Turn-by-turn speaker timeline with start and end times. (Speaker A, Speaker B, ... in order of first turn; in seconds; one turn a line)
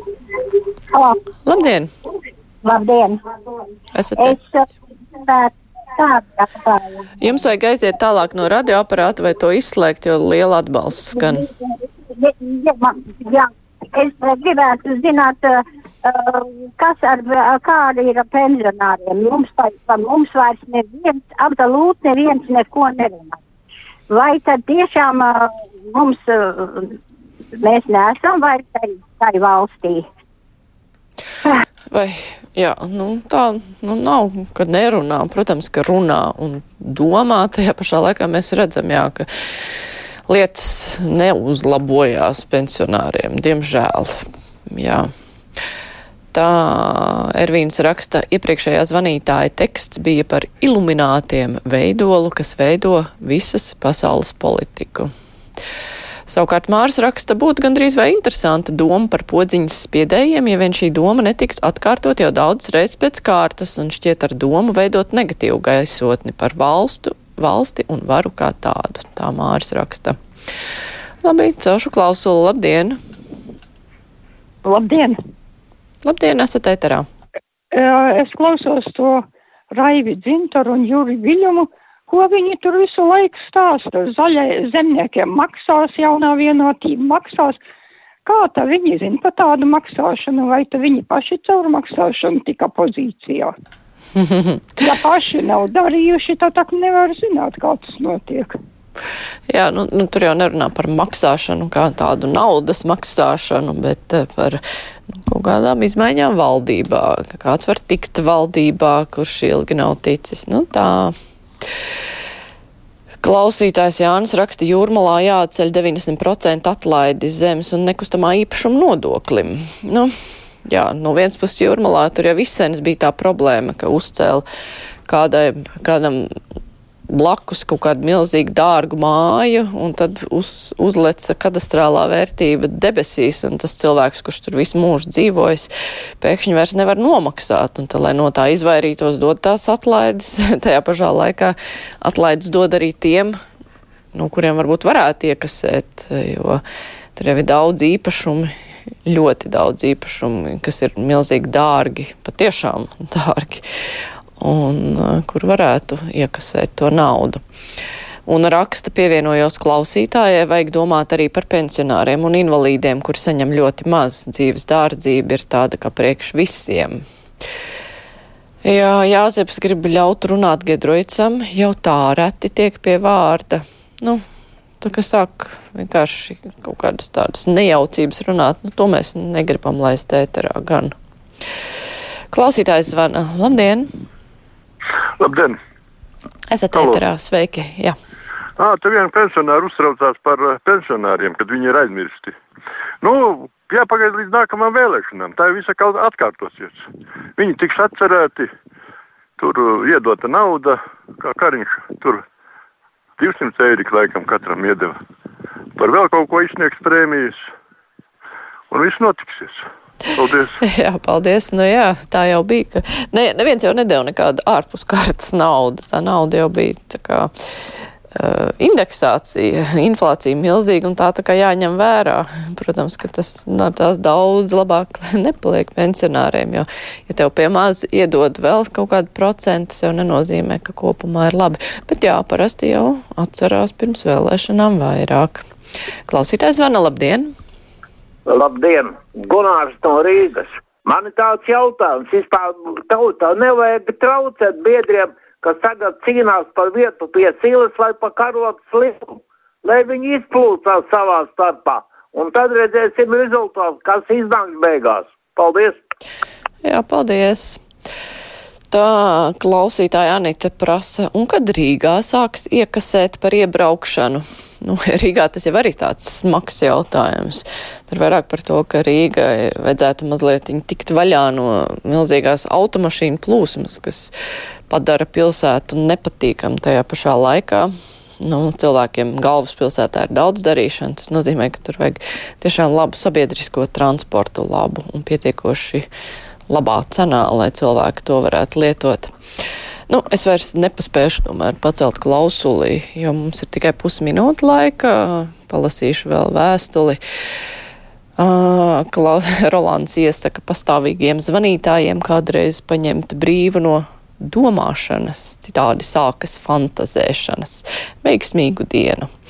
Speaker A: 0.9-1.2
Speaker B: 1.4-1.9
Speaker A: 2.6-7.0
Speaker B: 3.9-4.4
Speaker B: 7.2-11.5
Speaker A: 11.2-23.4
Speaker A: 24.1-27.0
Speaker A: 27.6-30.1
Speaker B: 31.9-39.3
Speaker B: 40.3-44.2
Speaker B: 44.7-45.1
Speaker B: 46.3-55.1
Speaker B: 56.3-70.2
Speaker B: 71.2-73.0
Speaker C: 74.6-75.2
Speaker B: 76.0-77.1
Speaker C: 77.7-79.2
Speaker C: 79.7-87.6
Speaker C: 88.3-93.5
Speaker B: 94.2-94.6
Speaker C: 94.8-98.5
Speaker B: 99.5-104.6
Speaker B: 105.1-111.2
Speaker B: 113.2-120.1
Speaker B: 120.7-124.5
Speaker B: 125.1-126.3
Speaker B: 127.1-135.7
Speaker B: 136.2-143.4
Speaker B: 144.2-146.6
Speaker B: 147.2-148.5
Speaker B: 149.1-153.6
Speaker B: 154.4-157.4
Speaker B: 158.3-167.0
Speaker B: 168.7-174.2
Speaker B: 174.8-180.9
Speaker B: 182.3-183.9
Speaker D: 185.2-185.6
Speaker B: 186.5-187.9
Speaker D: 186.7-187.0
Speaker D: 188.6-192.4
Speaker D: 193.0-196.9
Speaker D: 197.4-198.5
Speaker D: 199.4-202.2
Speaker D: 203.2-205.0
Speaker D: 205.8-207.5
Speaker D: 208.7-210.6
Speaker B: 210.6-217.3
Speaker B: 218.2-235.5
Speaker B: 236.1-237.3
Speaker E: 238.3-255.8
Speaker B: 256.6-257.6
Speaker B: 258.7-274.1
Speaker B: 274.7-277.7
Speaker B: 278.2-285.9
Speaker B: 286.5-289.1
Speaker B: 289.9-297.0
Speaker B: 298.2-309.1